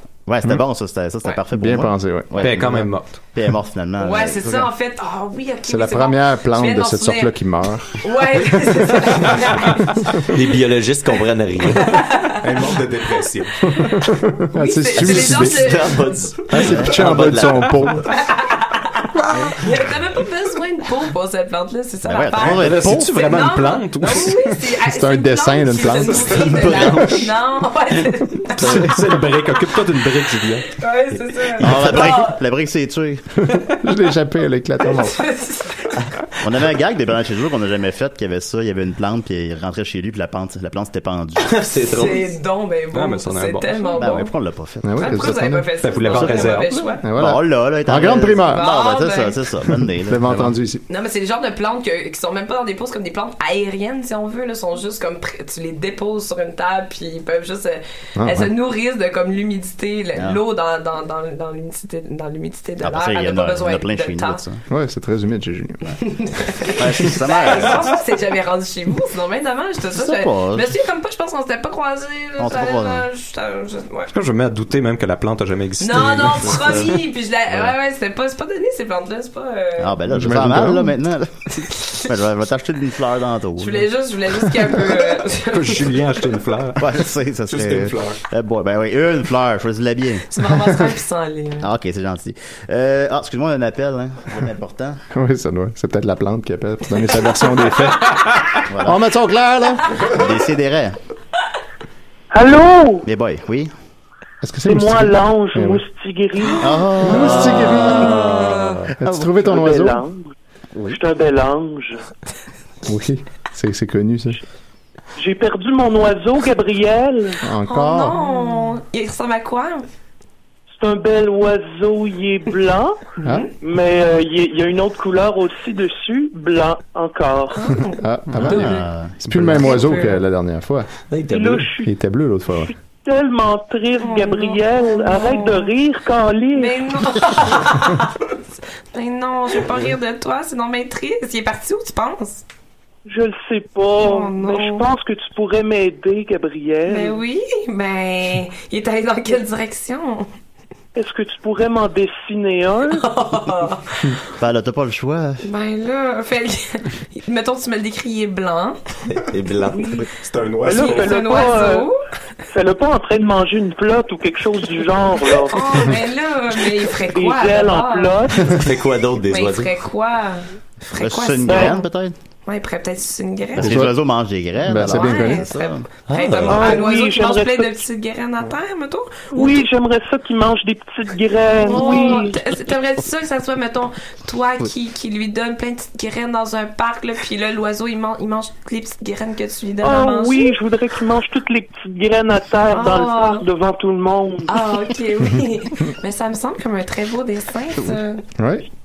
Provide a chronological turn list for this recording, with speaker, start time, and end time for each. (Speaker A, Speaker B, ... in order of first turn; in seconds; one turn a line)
Speaker A: 0.2-4.7
Speaker B: 1.5-2.9
Speaker C: 2.4-3.2
Speaker D: 4.0-7.3
Speaker B: 5.7-9.5
Speaker D: 7.9-10.2
Speaker E: 10.2-11.9
Speaker D: 11.8-12.4
Speaker F: 12.4-13.5
Speaker B: 13.7-15.8
Speaker D: 14.5-16.1
Speaker E: 15.0-17.9
Speaker B: 16.5-18.1
Speaker A: 16.6-17.0
Speaker D: 18.1-29.0
Speaker A: 22.1-23.2
Speaker C: 22.4-24.5
Speaker B: 24.8-27.2
Speaker E: 26.5-27.2
Speaker C: 28.6-30.8
Speaker B: 28.6-29.0
Speaker D: 30.7-32.4
Speaker A: 31.6-33.3
Speaker B: 33.5-35.2
Speaker D: 34.8-36.1
Speaker A: 36.4-41.8
Speaker E: 41.4-42.3
Speaker D: 41.9-44.3
Speaker C: 42.9-43.9
Speaker A: 44.0-45.3
Speaker B: 44.8-45.7
Speaker D: 45.0-47.0
Speaker C: 45.8-46.7
Speaker A: 46.1-50.5
Speaker B: 47.0-48.6
Speaker D: 48.5-49.4
Speaker B: 49.8-50.8
Speaker D: 50.9-64.4
Speaker B: 58.2-58.5
Speaker A: 62.8-64.6
Speaker B: 64.7-65.8
Speaker D: 66.0-74.1
Speaker A: 66.8-68.0
Speaker A: 69.9-70.7
Speaker A: 72.4-73.0
Speaker C: 74.1-76.8
Speaker D: 75.8-80.0
Speaker A: 76.6-76.9
Speaker A: 79.8-83.9
Speaker B: 80.1-81.0
Speaker D: 83.6-86.0
Speaker C: 85.5-86.8
Speaker A: 86.8-90.3
Speaker F: 87.5-88.2
Speaker D: 90.3-91.7
Speaker A: 91.6-95.0
Speaker B: 95.1-100.0
Speaker D: 98.0-98.4
Speaker A: 98.7-99.0
Speaker A: 100.0-101.0
Speaker G: 102.3-103.1
Speaker A: 103.0-103.7
Speaker B: 104.4-105.8
Speaker G: 104.6-106.9
Speaker A: 106.6-109.8
Speaker B: 107.0-110.0
Speaker D: 107.0-108.8
Speaker G: 109.5-110.3
Speaker G: 110.9-112.0
Speaker B: 112.8-114.4
Speaker G: 115.2-117.4
Speaker B: 117.4-118.2
Speaker D: 117.7-119.8
Speaker G: 120.7-123.0
Speaker D: 123.2-123.5
Speaker G: 123.6-127.7
Speaker D: 127.5-128.8
Speaker B: 127.9-130.9
Speaker A: 128.4-129.9
Speaker D: 129.6-130.2
Speaker E: 131.1-131.7
Speaker G: 131.3-131.9
Speaker B: 131.8-132.7
Speaker G: 132.7-137.0
Speaker D: 134.0-135.7
Speaker D: 136.6-142.4
Speaker G: 143.0-147.2
Speaker D: 144.0-144.8
Speaker D: 146.9-150.3
Speaker G: 150.9-153.1
Speaker D: 152.9-154.2
Speaker A: 154.4-155.4
Speaker D: 155.4-158.8
Speaker E: 159.3-160.1
Speaker G: 159.7-160.0
Speaker F: 160.0-161.2
Speaker G: 160.6-161.9
Speaker D: 160.7-162.0
Speaker G: 162.5-165.9
Speaker D: 165.5-168.6
Speaker G: 166.8-168.6
Speaker E: 168.4-169.7
Speaker D: 169.2-171.9
Speaker A: 171.0-172.1
Speaker G: 171.5-171.8
Speaker D: 172.4-173.8
Speaker A: 173.6-175.9
Speaker B: 173.6-173.9
Speaker B: 174.6-175.5
Speaker D: 174.8-179.7
Speaker E: 176.1-176.8
Speaker G: 176.4-177.8
Speaker G: 179.3-182.4
Speaker D: 181.6-190.6
Speaker G: 189.8-194.6
Speaker D: 192.7-193.4
Speaker D: 194.5-198.2
Speaker B: 198.4-198.7